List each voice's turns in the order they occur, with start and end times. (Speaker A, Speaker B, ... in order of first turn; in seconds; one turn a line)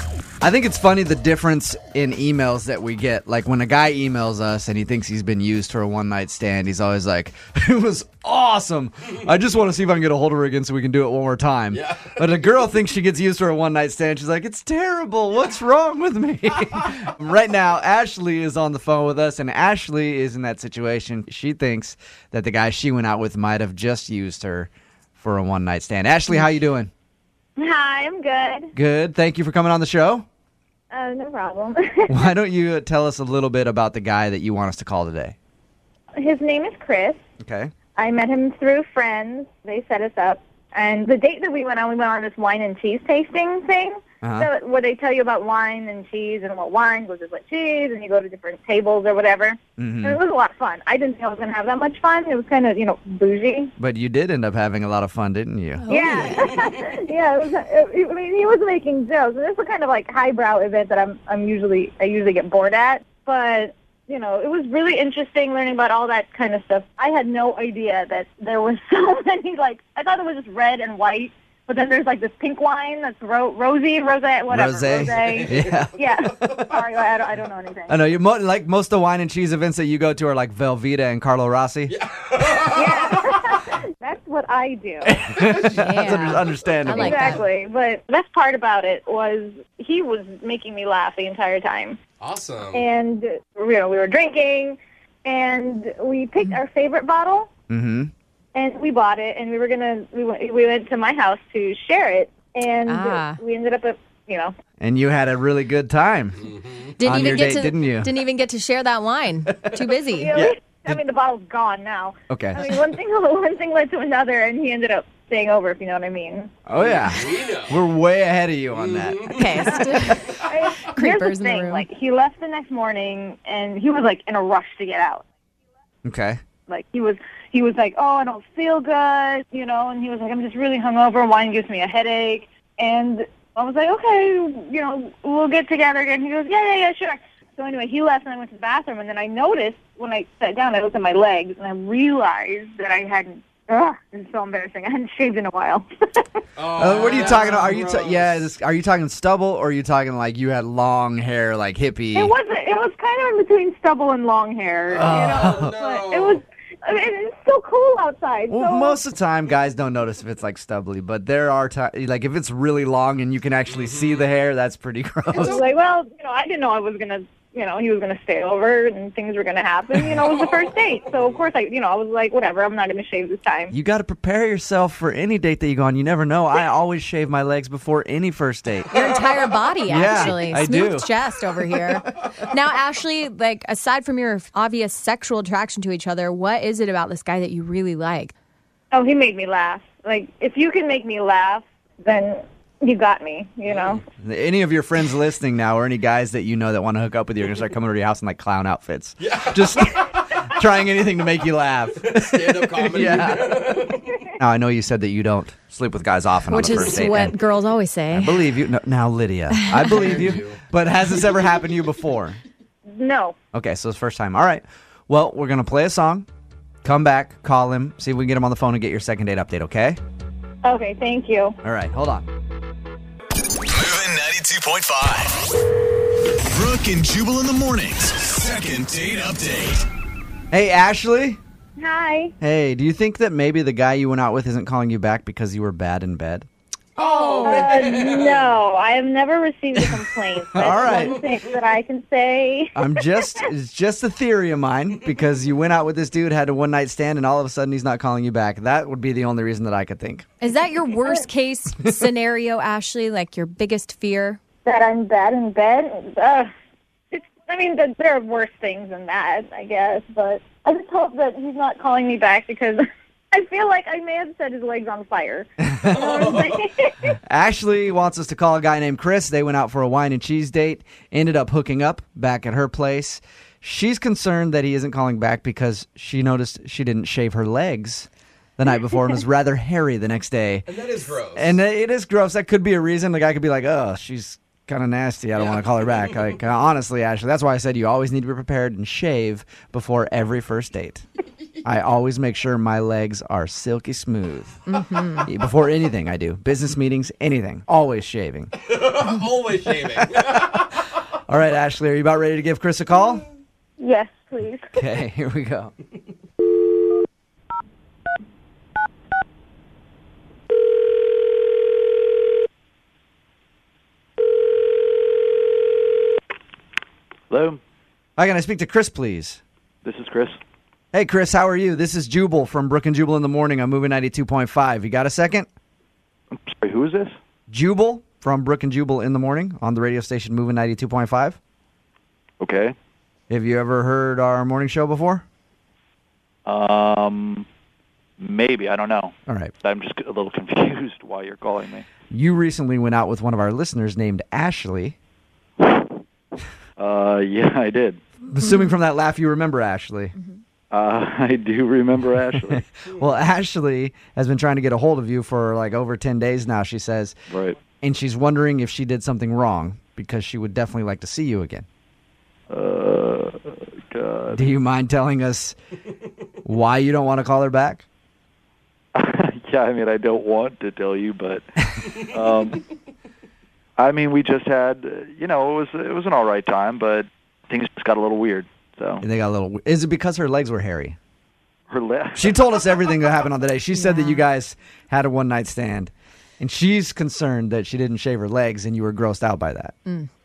Speaker A: 0.4-26.9
Speaker B: 11.7-12.2
Speaker C: 27.6-28.7
Speaker A: 28.8-30.2
Speaker C: 30.9-32.3
Speaker A: 32.1-35.4
Speaker C: 36.2-37.2
Speaker A: 37.4-37.7
Speaker C: 38.0-53.7
Speaker A: 44.2-44.5
Speaker A: 49.8-50.2
Speaker A: 53.8-56.3
Speaker D: 55.8-56.5
Speaker C: 55.9-78.0
Speaker A: 74.5-76.6
Speaker B: 75.1-75.8
Speaker A: 77.9-82.0
Speaker B: 81.9-83.2
Speaker C: 82.6-85.2
Speaker A: 85.0-87.4
Speaker B: 85.4-86.5
Speaker D: 85.7-87.4
Speaker C: 86.9-92.0
Speaker B: 92.2-92.9
Speaker C: 92.7-97.5
Speaker A: 97.7-98.1
Speaker C: 98.5-104.5
Speaker D: 102.9-103.4
Speaker A: 104.8-106.5
Speaker B: 106.5-107.0
Speaker D: 107.0-110.3
Speaker A: 107.0-108.1
Speaker C: 110.2-116.5
Speaker A: 110.4-111.0
Speaker A: 112.3-112.8
Speaker A: 116.7-120.1
Speaker B: 116.8-117.8
Speaker B: 118.7-119.4
Speaker D: 119.3-121.9
Speaker C: 120.3-125.2
Speaker A: 126.0-126.4
Speaker C: 126.7-146.3
Speaker B: 146.6-148.4
Speaker A: 146.8-152.3
Speaker C: 152.1-159.0
Speaker A: 154.9-155.8
Speaker B: 155.0-156.4
Speaker A: 158.5-165.6
Speaker B: 163.7-164.2
Speaker B: 165.3-165.6
Speaker C: 165.3-173.7
Speaker B: 170.4-171.4
Speaker A: 173.7-179.2
Speaker D: 178.9-188.3
Speaker A: 179.9-181.1
Speaker C: 188.9-194.0
Speaker A: 194.2-207.4
Speaker B: 199.2-200.0
Speaker B: 202.1-204.3
Speaker D: 206.5-208.5
Speaker A: 208.1-212.4
Speaker D: 209.6-210.2
Speaker B: 209.8-210.6
Speaker C: 212.9-213.3
Speaker A: 213.5-216.2
Speaker A: 216.8-220.0
Speaker C: 220.6-221.6
Speaker A: 221.6-222.2
Speaker E: 223.6-225.5
Speaker E: 226.4-229.8
Speaker A: 230.5-231.4
Speaker C: 231.8-232.3
Speaker A: 232.4-236.4
Speaker B: 237.0-238.6
Speaker C: 237.1-243.4
Speaker D: 237.2-237.7
Speaker A: 240.5-241.2
Speaker A: 242.7-250.2
Speaker D: 250.4-254.4
Speaker C: 254.6-256.5
Speaker C: 257.1-267.1
Speaker A: 265.6-266.2
Speaker B: 265.9-266.5
Speaker A: 267.2-280.7
Speaker B: 280.7-281.6
Speaker A: 281.3-291.1
Speaker B: 285.4-286.1
Speaker A: 291.6-294.6
Speaker D: 294.6-295.3
Speaker A: 295.2-298.5
Speaker B: 298.7-300.6
Speaker A: 299.9-300.4
Speaker A: 301.3-303.2
Speaker C: 303.8-304.8
Speaker A: 304.8-305.7
Speaker F: 317.3-317.6
Speaker A: 318.2-319.4
Speaker F: 319.8-320.4
Speaker A: 320.9-325.5
Speaker F: 326.3-327.1
Speaker A: 327.5-331.4
Speaker F: 332.4-332.8
Speaker A: 333.3-335.2
Speaker F: 336.4-337.4
Speaker F: 338.2-341.9
Speaker A: 339.3-339.5
Speaker A: 342.1-344.9
Speaker F: 345.6-345.9
Speaker F: 346.8-348.0
Speaker A: 348.3-350.1
Speaker D: 348.4-348.7
Speaker F: 350.7-352.6
Speaker A: 352.4-357.1
Speaker F: 357.3-357.6
Speaker A: 357.8-361.6
Speaker F: 362.5-364.4
Speaker A: 364.3-365.6
Speaker A: 366.4-367.8
Speaker F: 368.9-372.6
Speaker F: 373.8-379.0
Speaker A: 379.0-380.9
Speaker F: 381.7-382.4
Speaker A: 382.1-389.7
Speaker D: 383.7-384.2